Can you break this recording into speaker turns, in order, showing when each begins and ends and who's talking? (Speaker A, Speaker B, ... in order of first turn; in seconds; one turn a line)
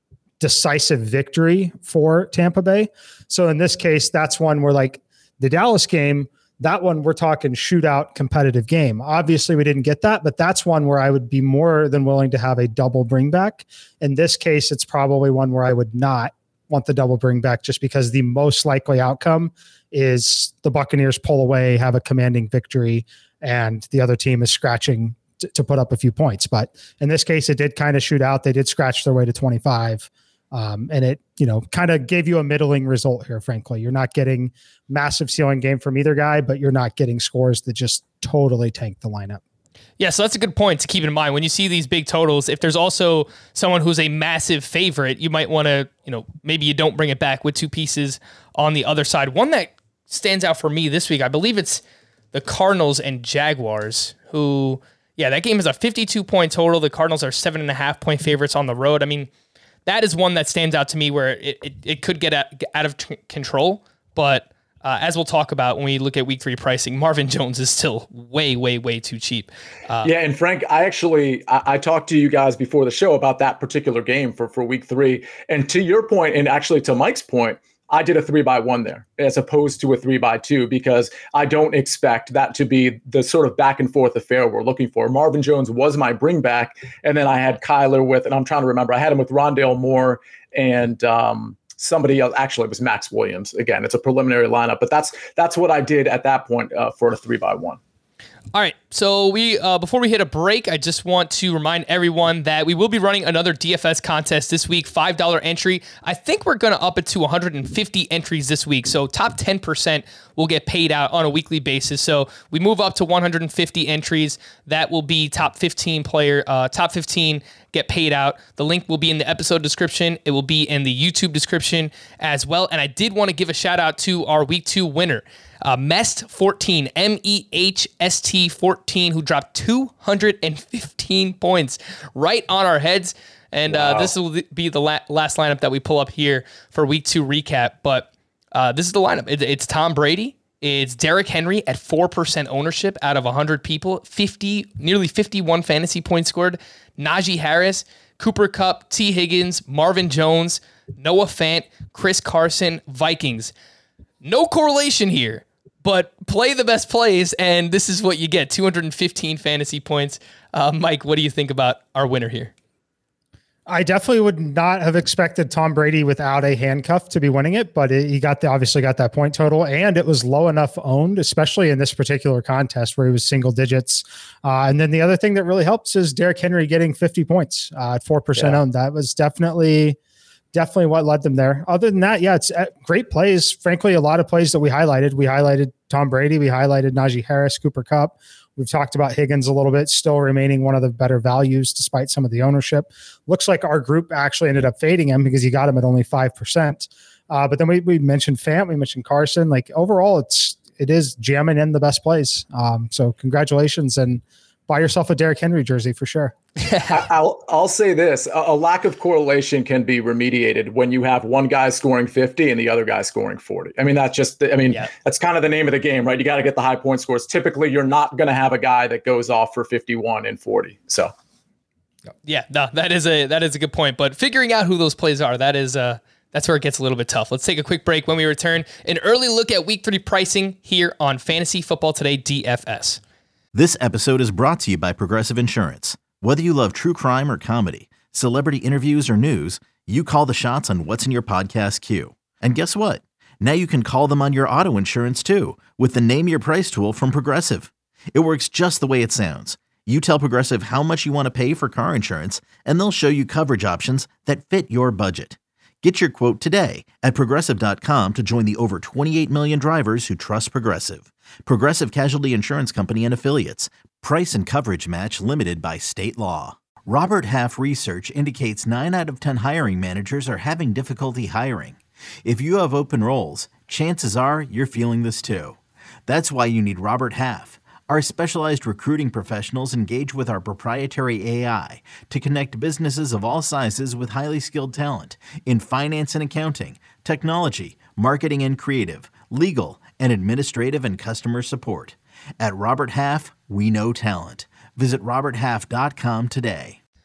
Speaker A: 0.4-39.4
Speaker B: 40.0-51.8
Speaker B: 52.3-59.3
Speaker B: 59.9-70.1
Speaker C: 70.0-97.8
Speaker B: 98.5-153.5
Speaker C: 133.7-134.1
Speaker B: 154.2-162.5
Speaker A: 163.7-180.0
Speaker A: 180.5-206.3
Speaker B: 206.6-206.9
Speaker C: 206.9-221.1
Speaker B: 222.2-233.0
Speaker D: 233.5-296.8